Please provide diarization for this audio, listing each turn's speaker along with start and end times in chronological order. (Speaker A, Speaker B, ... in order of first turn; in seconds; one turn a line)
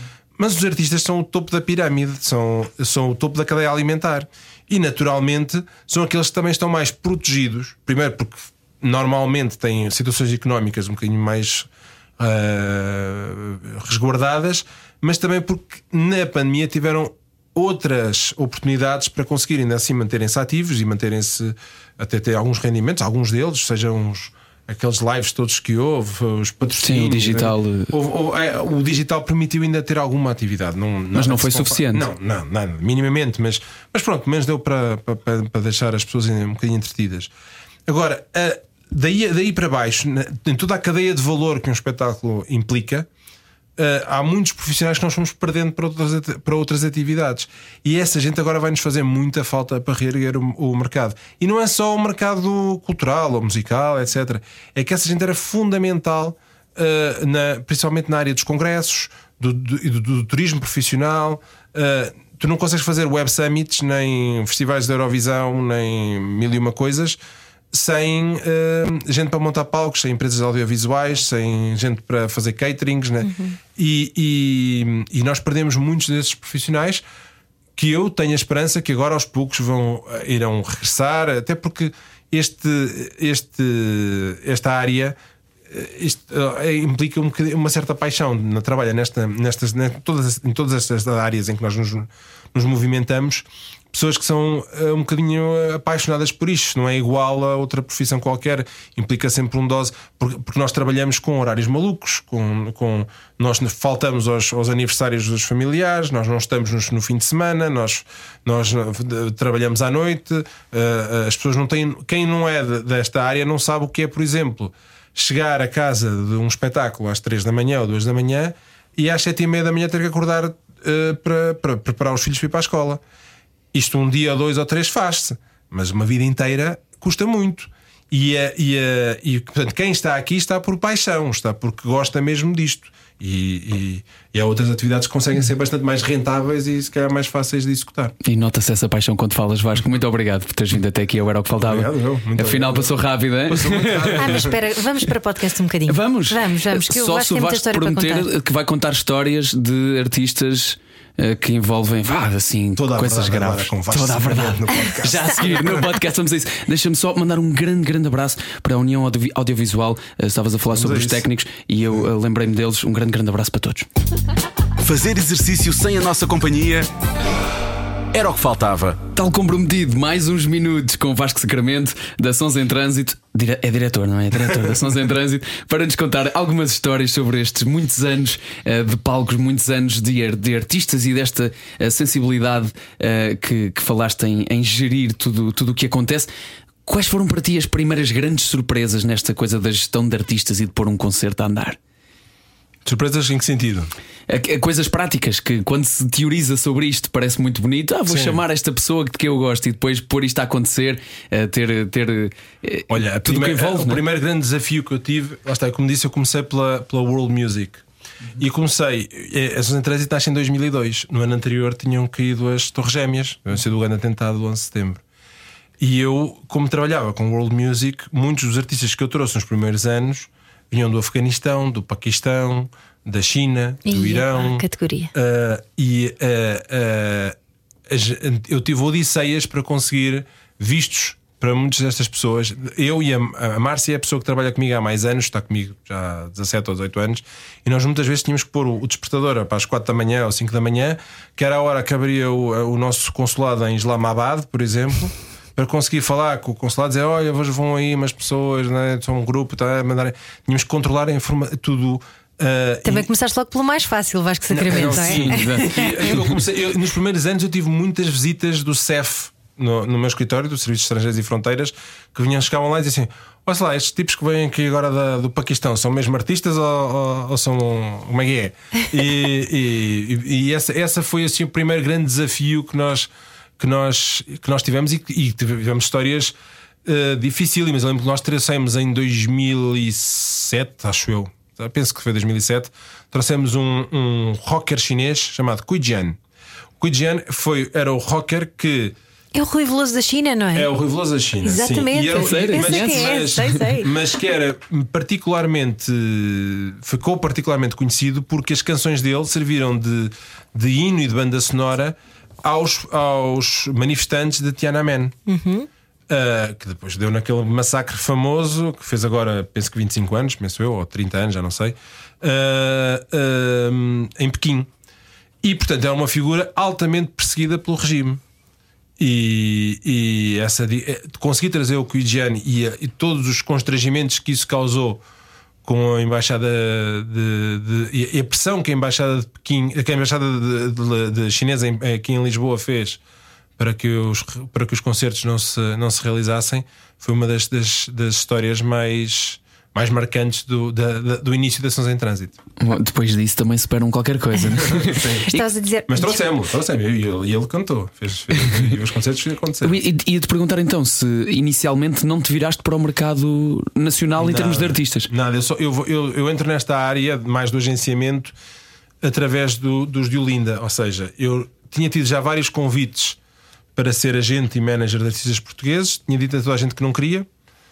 Speaker A: 0.4-37.3
Speaker B: 26.8-27.9
Speaker B: 31.1-32.1
Speaker A: 37.9-43.1
Speaker A: 43.8-67.2
Speaker A: 67.7-77.0
Speaker C: 73.2-73.6
Speaker A: 77.8-85.2
Speaker A: 85.7-123.0
Speaker A: 123.7-138.2
Speaker B: 138.2-144.4
Speaker A: 141.6-144.6
Speaker C: 144.2-148.3
Speaker B: 145.9-163.9
Speaker A: 152.8-155.9
Speaker A: 160.7-161.2
Speaker D: 164.8-166.9
Speaker D: 168.1-169.1
Speaker B: 169.1-186.3
Speaker B: 186.8-191.8
Speaker A: 192.8-193.9
Speaker B: 194.3-204.0
Speaker A: 198.1-198.4
Speaker A: 202.9-207.8
Speaker A: 208.4-215.0
Speaker A: 215.8-227.4
Speaker C: 223.9-225.1
Speaker A: 227.9-253.1
Speaker C: 252.8-255.9
Speaker A: 254.5-286.2
Speaker B: 254.6-256.4
Speaker A: 286.8-289.0
Speaker C: 289.4-290.7
Speaker A: 290.5-305.1
Speaker C: 291.4-293.9
Speaker B: 292.1-293.6
Speaker C: 305.3-305.7
Speaker A: 306.1-314.7
Speaker A: 315.4-318.2
Speaker A: 319.0-325.0
Speaker A: 325.6-333.0
Speaker A: 333.6-342.4
Speaker B: 342.6-345.5
Speaker A: 344.6-345.3
Speaker C: 345.3-346.2
Speaker A: 345.9-349.8
Speaker B: 349.6-355.1
Speaker A: 354.2-358.4
Speaker A: 359.0-363.2
Speaker A: 363.8-367.3